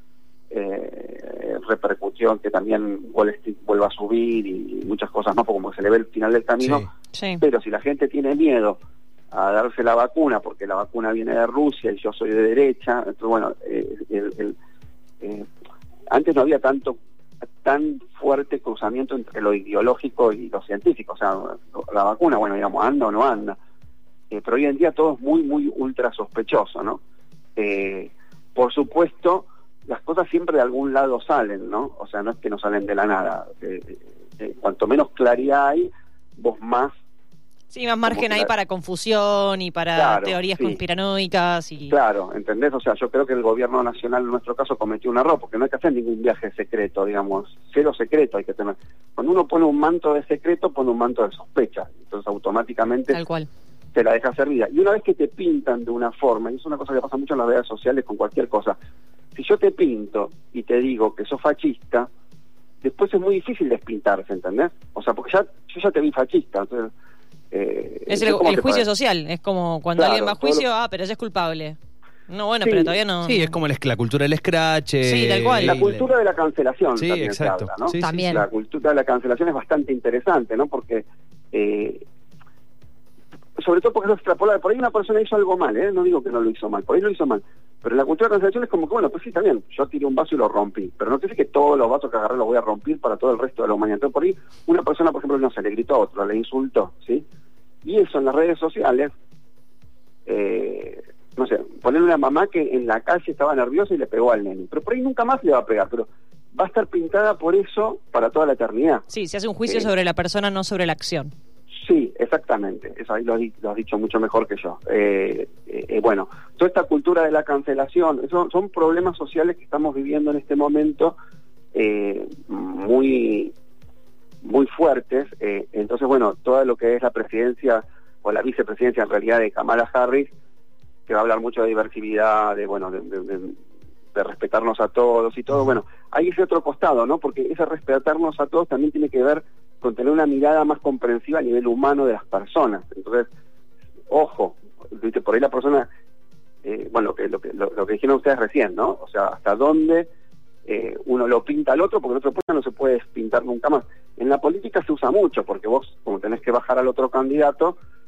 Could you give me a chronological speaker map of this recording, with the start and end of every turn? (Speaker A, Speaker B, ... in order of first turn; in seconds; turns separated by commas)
Speaker A: 0.5-6.8, Speaker B: 6.6-6.9, Speaker C: 7.1-7.4, Speaker A: 7.4-8.8, Speaker A: 9.3-14.6, Speaker A: 15.2-15.5, Speaker A: 16.1-17.0, Speaker A: 17.6-23.6, Speaker A: 24.3-27.0, Speaker A: 27.6-36.9, Speaker C: 37.7-41.9, Speaker A: 38.0-38.5, Speaker A: 39.9-40.8, Speaker A: 41.9-53.2, Speaker C: 53.1-53.5, Speaker A: 53.9-58.8, Speaker A: 59.3-62.1, Speaker A: 62.8-66.9, Speaker A: 67.5-68.8, Speaker C: 68.1-71.8, Speaker A: 70.0-70.6, Speaker C: 72.3-73.5, Speaker A: 72.6-73.0, Speaker B: 73.2-76.0, Speaker C: 75.0-75.8, Speaker A: 75.6-82.0, Speaker B: 77.0-78.2, Speaker C: 78.0-78.5, Speaker A: 83.6-97.2, Speaker A: 97.8-99.1, Speaker A: 100.2-109.0, Speaker C: 109.1-111.3, Speaker A: 111.7-121.2, Speaker A: 121.7-123.5, Speaker A: 124.4-130.3, Speaker A: 131.1-133.6, Speaker A: 134.1-143.3, Speaker A: 144.1-145.9, Speaker A: 146.6-150.1, Speaker A: 150.7-157.8